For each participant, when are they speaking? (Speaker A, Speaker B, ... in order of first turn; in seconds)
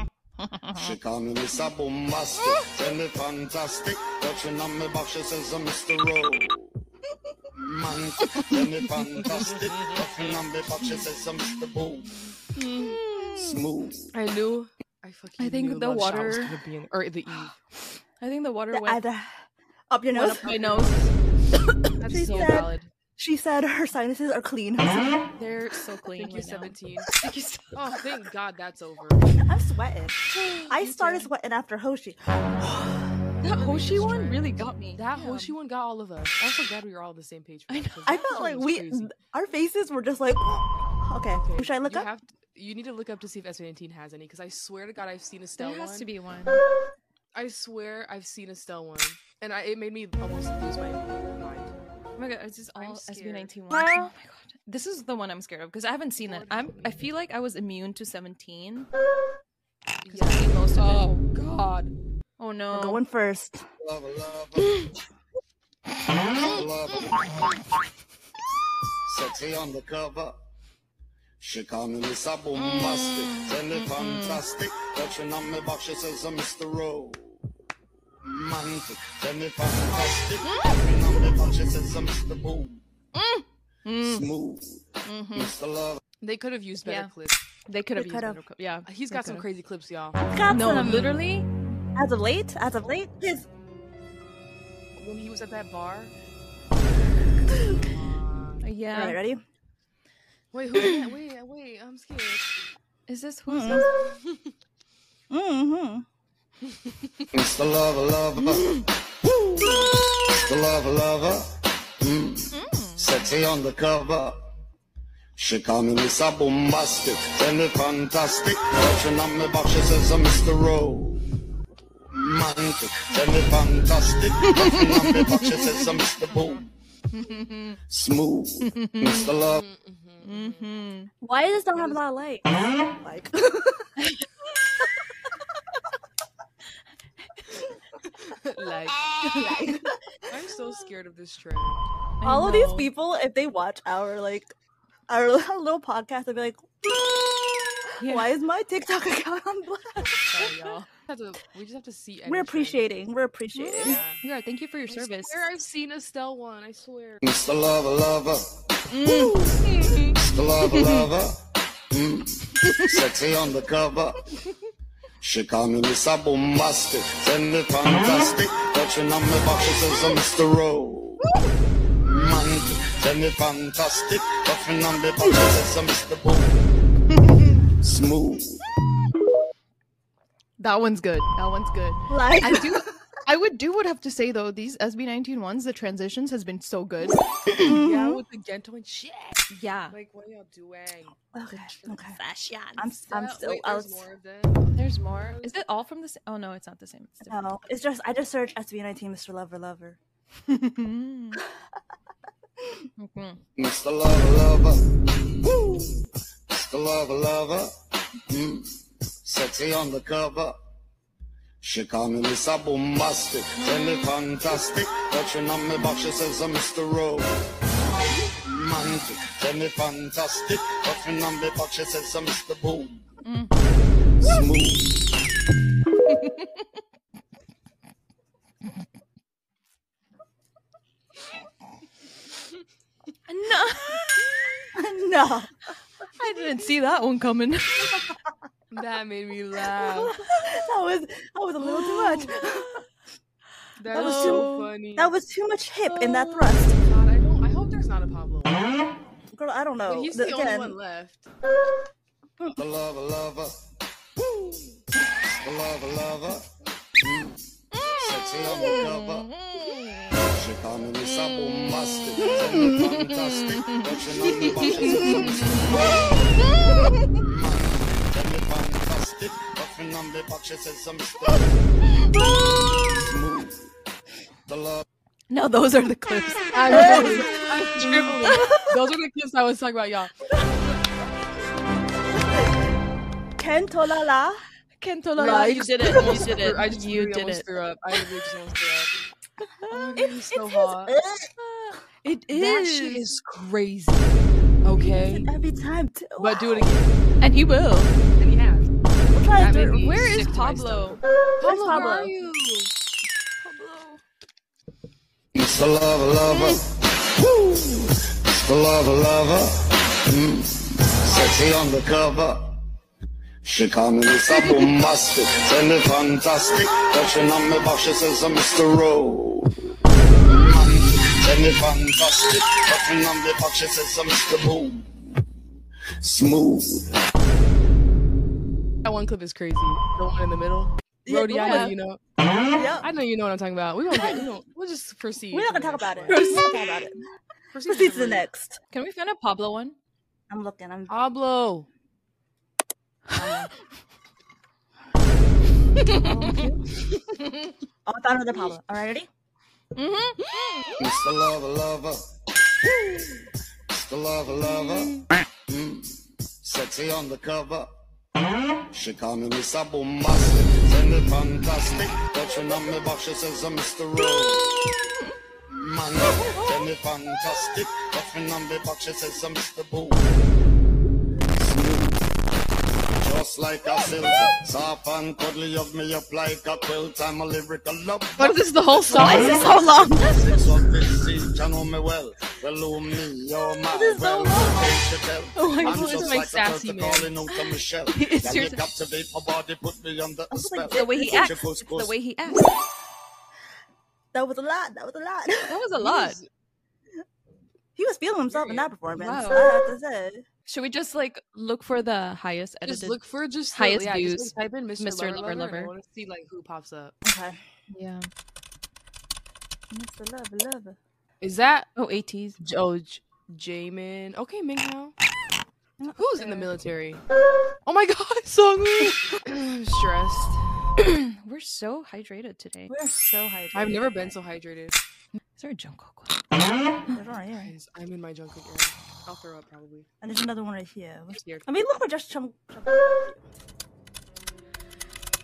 Speaker A: 0.6-0.8, 12.8-13.5, 15.4-16.5, 18.2-19.0, 20.1-21.1, 25.4-27.8, 30.3-31.3, 33.4-35.5, 37.7-38.2, 45.6-46.6, 52.2-58.9, 60.0-61.1, 62.4-63.0, 72.5-74.4, 80.4-80.8, 83.1-84.2, 85.0-85.5, 86.8-87.1, 87.7-89.5, 90.5-91.5, 98.6-99.2, 100.8-101.0, 103.1-103.9, 108.5-108.8, 112.5-113.2, 124.5-125.6, 127.1-127.8, 128.6-129.3, 130.2-131.1, 139.2-139.6, 142.2-142.9, 148.0-148.3, 153.6-155.5, 158.9-160.1, 162.6-162.9, 180.6-187.7, 189.5-189.9, 191.5-193.2, 194.8-197.4, 200.4-201.4, 203.0-203.4, 213.6-214.1, 223.2-223.5, 226.1-226.6, 233.3-234.3, 236.1-238.0, 239.9-240.4, 243.9-244.7, 257.8-260.1, 262.2-263.9, 264.9-266.8, 275.3-278.7, 284.8-287.4, 289.6-290.8, 291.4-293.1, 297.2-298.0, 299.8-301.0, 301.7-302.1, 303.4-304.0, 331.3-331.7, 336.1-336.6, 338.7-339.8, 345.8-346.4, 347.2-347.5, 349.7-350.7, 366.1-366.5, 378.9-380.4, 383.7-384.3, 385.3-386.2, 387.3-388.6, 390.7-392.6, 395.4-396.2, 399.0-399.6, 400.5-403.0, 403.5-405.7, 407.7-408.1, 411.8-412.4, 420.8-422.7, 425.4-426.2
Speaker B: 0.7-6.7, 7.5-12.2, 13.3-14.1, 63.8-64.8, 66.4-67.5, 69.0-70.4, 71.4-77.4, 78.2-82.8, 84.0-86.0, 107.3-108.7, 110.3-114.4, 115.3-121.2, 122.1-126.7, 127.9-129.6, 157.2-158.5, 160.0-164.2, 165.2-171.2, 172.0-176.7, 177.8-178.5, 203.6-204.8, 205.4-207.7, 208.3-210.6, 211.6-217.3, 218.3-223.0, 224.2-225.2, 252.5-253.6, 255.2-259.3, 260.3-266.2, 267.1-271.7, 272.7-273.7, 274.5-274.8, 305.3-312.6, 313.4-319.6, 320.2-324.9, 326.0-327.0, 350.8-352.1, 353.7-357.7, 358.7-364.8, 365.5-370.1, 371.3-372.1, 373.0-378.4, 379.0-391.9
Speaker C: 12.5-13.0, 14.1-17.6, 20.6-20.9, 22.0-22.9, 26.1-27.1, 27.7-29.2, 33.5-39.1, 41.4-46.1, 47.3-51.7, 52.7-53.5, 56.2-57.0, 60.0-61.9, 86.2-87.4, 88.8-90.2, 95.0-96.1, 97.5-98.6, 100.5-102.5, 104.1-104.4, 129.5-130.7, 131.7-132.0, 138.3-139.0, 140.3-141.8, 150.3-152.9, 153.8-154.2, 154.9-157.2, 187.6-191.2, 193.1-195.5, 238.7-240.2, 241.6-242.3, 243.8-245.1, 245.9-248.6, 249.8-251.3, 264.3-265.9, 276.5-280.1, 285.2-288.9, 289.7-290.9, 292.3-295.3, 296.2-296.9, 298.2-298.7, 299.3-302.7, 311.1-311.3, 328.8-332.0, 332.8-336.4, 337.5-338.3, 340.9-341.7, 378.2-379.6, 385.6-387.1, 395.8-396.3, 398.3-398.7, 402.6-406.9, 411.2-411.7, 412.4-414.9, 415.9-417.0, 417.6-420.4, 423.5-424.8, 427.4-429.9, 431.1-431.4
Speaker D: 18.7-20.9, 22.0-25.2, 29.4-33.1, 38.0-42.1, 62.7-63.6, 87.9-88.4, 90.2-91.2, 92.0-93.5, 97.5-97.8, 98.9-99.4, 103.5-103.9, 105.3-106.0, 131.2-132.5, 133.0-133.9, 139.4-140.2, 142.2-144.5, 145.1-147.0, 147.9-150.5, 152.2-154.0, 182.1-182.9, 187.6-188.2, 191.3-192.2, 192.8-194.0, 197.3-200.0, 234.7-235.5, 237.9-238.2, 240.3-242.8, 243.9-246.8, 249.3-250.8, 262.3-262.8, 276.7-277.4, 283.4-284.4, 290.9-291.3, 294.8-296.7, 299.1-299.8, 301.4-302.1, 331.1-331.8, 332.5-332.9, 333.9-334.3, 335.3-337.0, 337.7-338.6, 340.3-341.0, 343.1-343.5, 345.8-346.6, 347.9-349.1, 378.9-380.0, 384.1-384.6, 390.3-391.4, 394.1-395.6, 397.8-400.2, 407.0-407.4, 409.7-410.8, 415.8-416.5, 422.7-424.1, 426.9-427.5, 430.0-433.2